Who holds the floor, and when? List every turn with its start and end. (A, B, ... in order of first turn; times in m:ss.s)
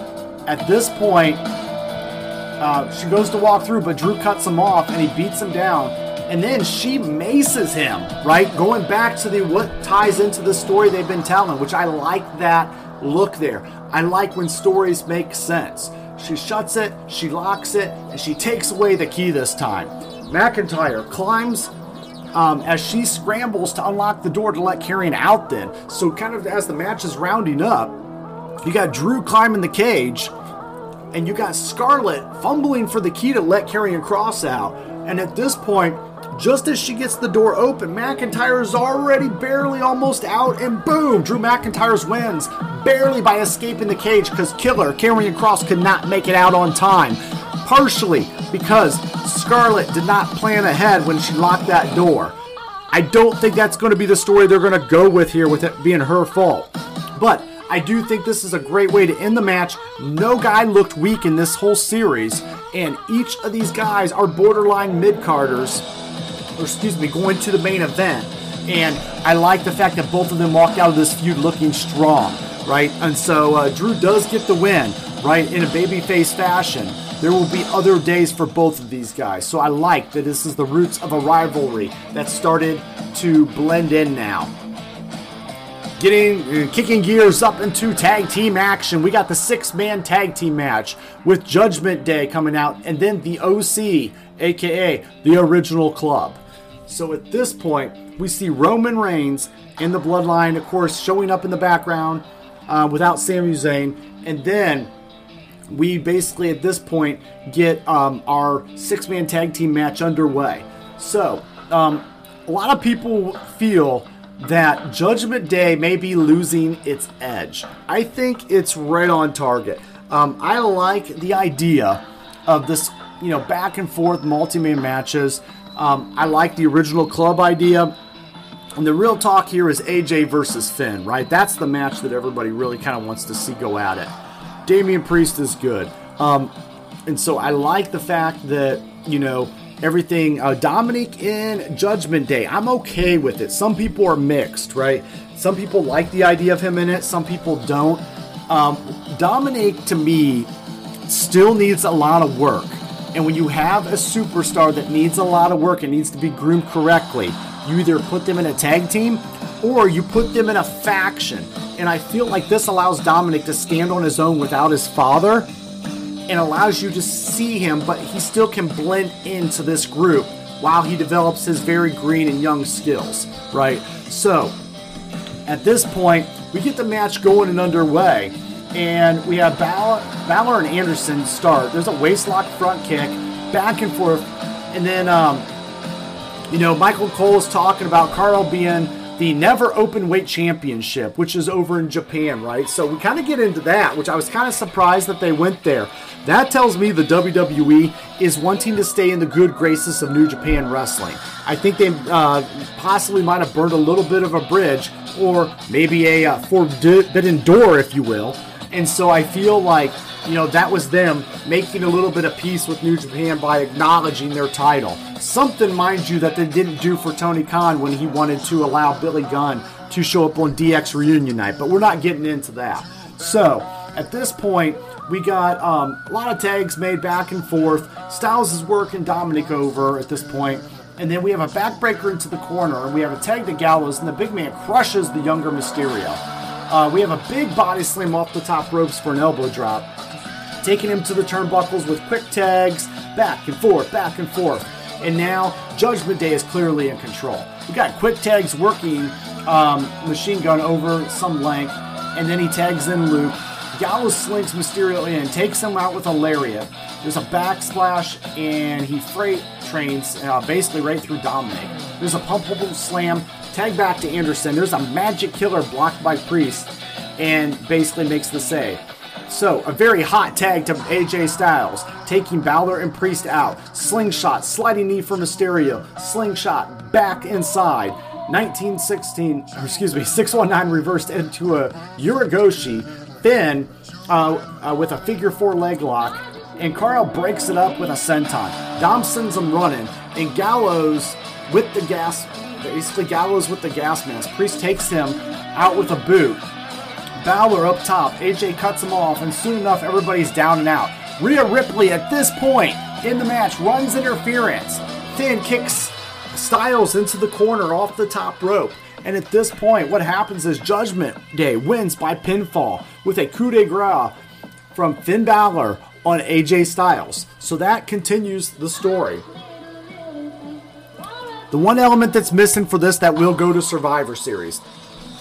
0:00.5-0:01.4 A
0:02.6-0:21.7 A
0:22.3-0:28.0 A
0:28.6-0:30.3 A
0:31.1-0:52.3 A
0:52.9-1:05.8 A
1:06.6-1:24.5 A
1:26.0-1:44.9 A
1:45.7-2:07.9 A
2:08.8-2:14.1 A
2:14.6-2:16.5 A
2:17.1-2:30.5 A
2:31.1-2:45.5 A
2:46.3-2:54.5 A
2:55.4-3:05.5 A
3:06.5-3:59.9 A
4:00.6-4:56.4 A
4:57.2-5:14.1 A
5:14.7-5:19.2 A
5:21.5-5:24.6 A